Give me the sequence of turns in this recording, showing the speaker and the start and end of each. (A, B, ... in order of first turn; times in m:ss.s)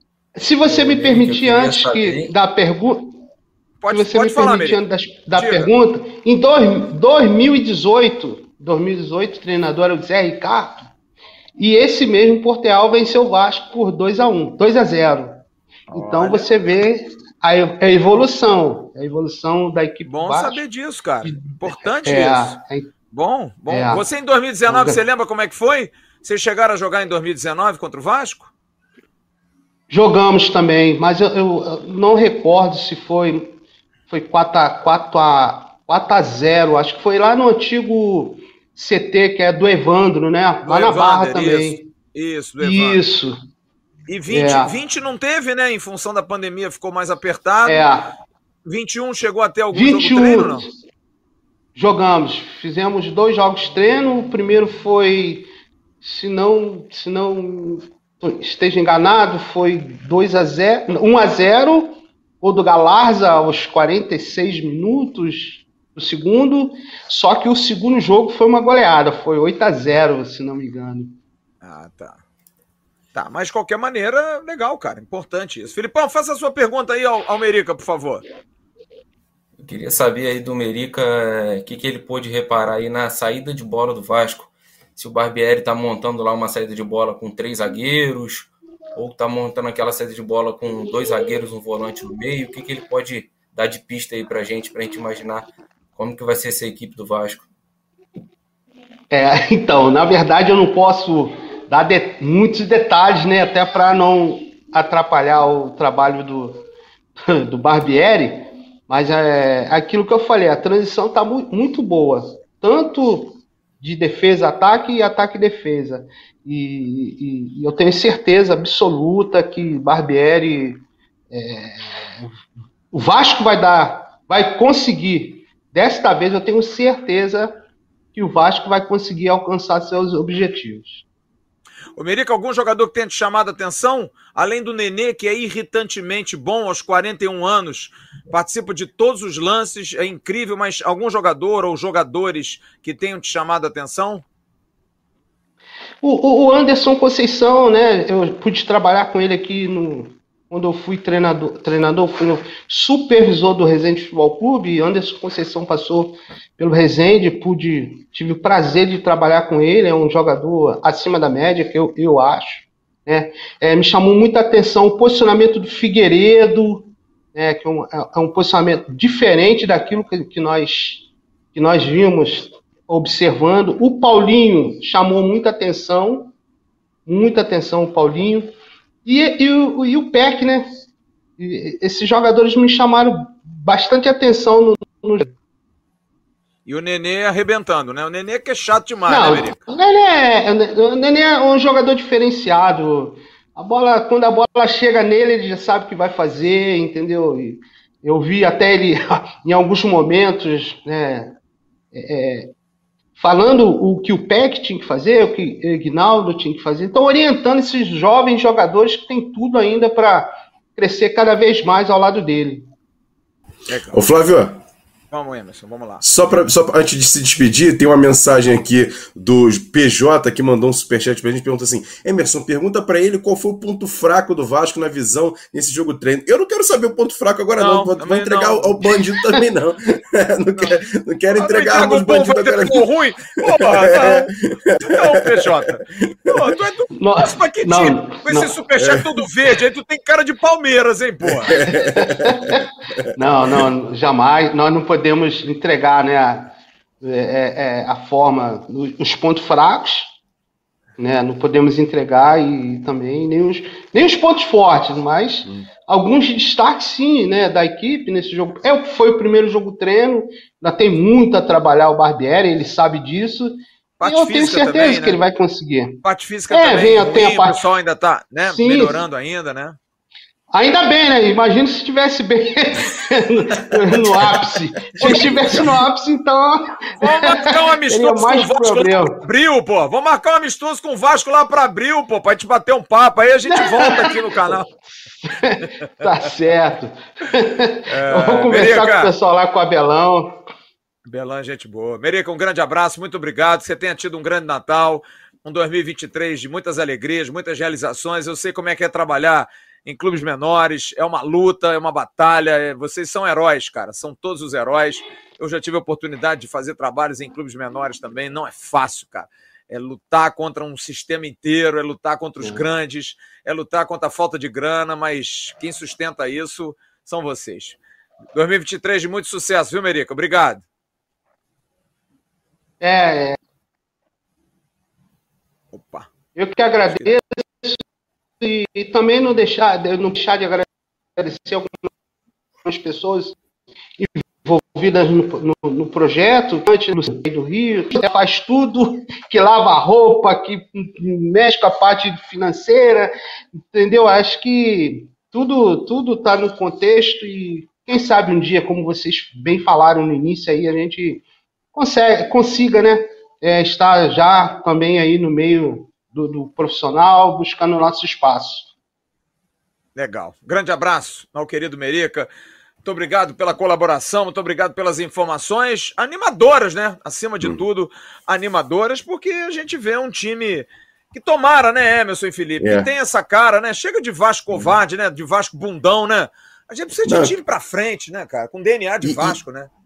0:00.4-0:03.2 A
0:00.7-0:02.3 B
0:03.8-0:04.8 C
0:03.9-0:10.9 A
0:05.3-0:05.7 C
0:11.6-0:20.6 A
0:15.9-0:16.5 C
0:20.0-0:22.6 C
0:21.2-0:22.9 A
0:23.1-0:28.5 C
0:23.7-0:24.0 A
0:24.7-0:25.0 A
0:29.9-0:33.6 A
0:34.1-0:41.9 A
0:40.6-0:43.0 C
0:42.6-0:43.4 A
0:44.1-0:47.8 C
0:44.3-0:44.7 A
0:47.7-0:48.1 A
0:48.7-0:50.6 C
0:49.7-0:50.7 A
0:51.8-0:55.5 A
0:56.0-1:11.2 A
1:11.6-1:12.2 C
1:13.1-1:18.2 C
1:19.6-1:37.5 B
1:39.1-1:46.6 A
1:47.3-2:02.3 A
2:02.9-2:07.6 A
2:08.2-2:11.0 A
2:12.0-2:24.2 C
2:26.0-2:56.3 A
2:57.1-2:58.5 A
2:59.0-3:00.7 A
3:01.4-3:05.3 A
3:06.7-3:09.6 C
3:09.1-3:21.4 A
3:21.9-3:22.5 A
3:23.2-3:32.7 A
3:33.7-3:34.0 C
3:33.9-3:34.6 D
3:35.1-3:36.0 C
3:36.0-3:52.9 D
3:47.6-3:48.7 C
3:50.5-3:50.8 C
3:51.3-3:54.3 C
3:53.5-3:55.4 D
3:54.8-4:01.7 C
3:57.0-3:58.6 A
4:01.5-4:02.6 D
4:01.7-4:02.6 A
4:03.2-4:10.1 A
4:11.0-4:27.6 A
4:24.0-4:25.2 C
4:26.0-4:29.8 C
4:28.4-4:29.0 A
4:30.5-4:39.2 A
4:35.0-4:35.8 C
4:37.0-4:44.7 C
4:43.5-4:44.6 A
4:45.3-4:50.4 A
4:47.9-4:49.1 C
4:51.1-5:17.8 C
5:18.3-5:20.6 C
5:22.8-5:23.4 A
5:25.7-5:26.1 C
5:26.4-5:27.8 A
5:28.4-5:31.8 A
5:32.6-5:33.4 A
5:34.0-5:43.1 A
5:43.7-5:51.2 A
5:51.7-5:58.7 A
6:00.0-6:02.3 C
6:02.8-6:19.7 C
6:12.6-6:12.9 D
6:17.0-6:17.4 D
6:19.0-6:19.4 D